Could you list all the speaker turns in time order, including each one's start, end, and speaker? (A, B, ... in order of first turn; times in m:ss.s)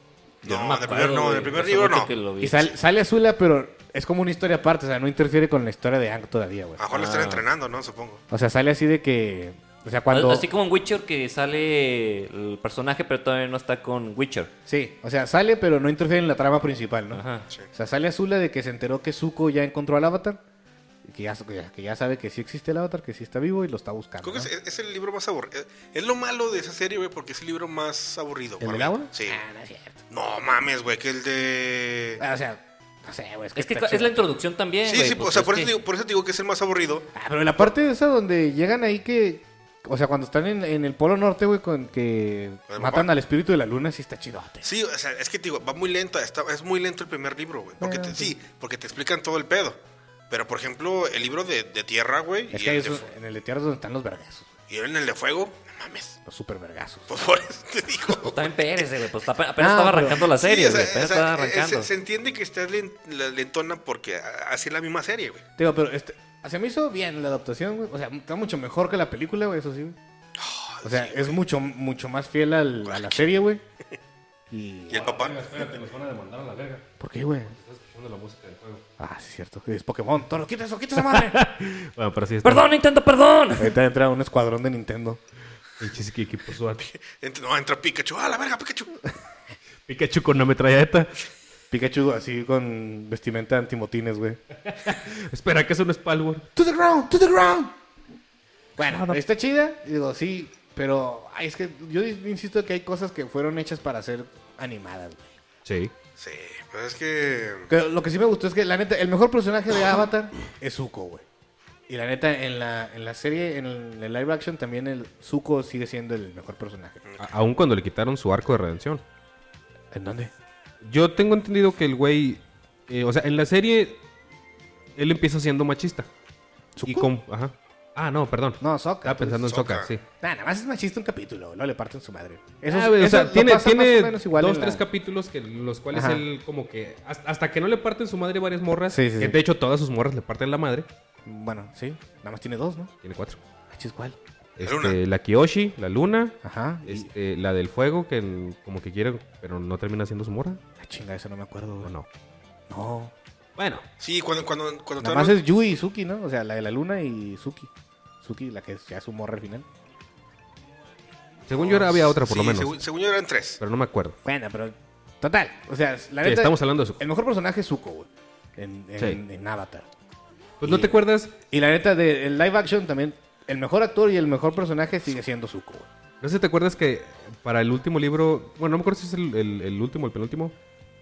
0:00.4-0:02.7 A
0:00.4-0:02.1 B
0:02.4-0:06.8 C
0:06.8-0:08.2 B
0:06.9-0:07.4 A
0:08.3-0:10.5 C
0:10.1-0:14.5 A
0:14.7-0:17.2 C
0:17.1-0:17.5 A
0:17.7-0:20.4 C
0:21.0-0:24.5 C
0:24.2-0:29.4 B
0:28.6-0:30.0 C
0:30.1-0:32.2 B
0:32.2-0:34.3 C
0:33.6-0:35.8 A
0:34.8-0:37.7 B
0:37.2-0:44.7 C
0:42.7-0:43.1 B
0:44.6-0:49.8 B
0:47.8-0:48.3 C
0:50.3-0:53.1 B
0:52.5-0:54.5 C
0:54.7-0:56.2 B
0:56.2-0:57.1 C
0:57.1-0:58.5 B
0:58.2-1:01.9 A
0:59.6-1:00.3 C
1:00.2-1:05.4 B
1:05.6-1:10.0 C
1:10.4-1:11.4 B
1:10.8-1:13.6 C
1:12.8-1:13.3 B
1:14.5-1:15.1 C
1:14.9-1:15.4 B
1:14.9-1:16.9 D
1:17.0-1:17.6 C
1:17.5-1:18.8 D
1:19.0-1:21.4 C
1:21.0-1:22.7 D
1:22.4-1:23.8 A
1:23.6-1:25.2 C
1:25.8-1:26.8 D
1:26.8-1:29.0 B
1:29.9-1:31.1 D
1:31.7-1:34.4 C
1:34.6-1:36.5 D
1:36.6-1:37.7 C
1:38.8-1:45.2 C
1:38.8-1:39.2 D
1:45.7-1:45.9 D
1:46.2-1:47.7 B
1:47.7-1:51.2 C
1:51.9-1:57.0 C
1:57.0-1:57.3 B
1:57.2-1:59.0 D
1:59.9-2:00.3 C
2:00.8-2:04.0 D
2:05.0-2:06.1 D
2:06.8-2:07.1 C
2:06.9-2:10.0 D
2:08.6-2:09.5 C
2:09.4-2:09.9 B
2:10.2-2:14.8 C
2:12.7-2:20.9 D
2:15.9-2:16.2 C
2:18.9-2:19.4 C
2:21.3-2:22.9 C
2:23.0-2:23.4 D
2:23.7-2:24.2 C
2:24.6-2:30.6 D
2:24.6-2:25.0 B
2:26.4-2:27.1 C
2:30.8-2:31.9 C
2:31.8-2:32.1 D
2:32.7-2:33.1 C
2:33.6-2:33.8 D
2:34.0-2:35.4 B
2:35.0-2:37.7 C
2:38.2-2:39.7 C
2:41.5-2:42.8 D
2:41.5-2:43.6 B
2:43.6-2:44.2 D
2:44.2-2:49.9 C
2:46.2-2:47.0 D
2:50.6-2:51.4 D
2:50.6-2:51.0 C
2:51.5-2:55.9 C
2:56.2-3:00.6 D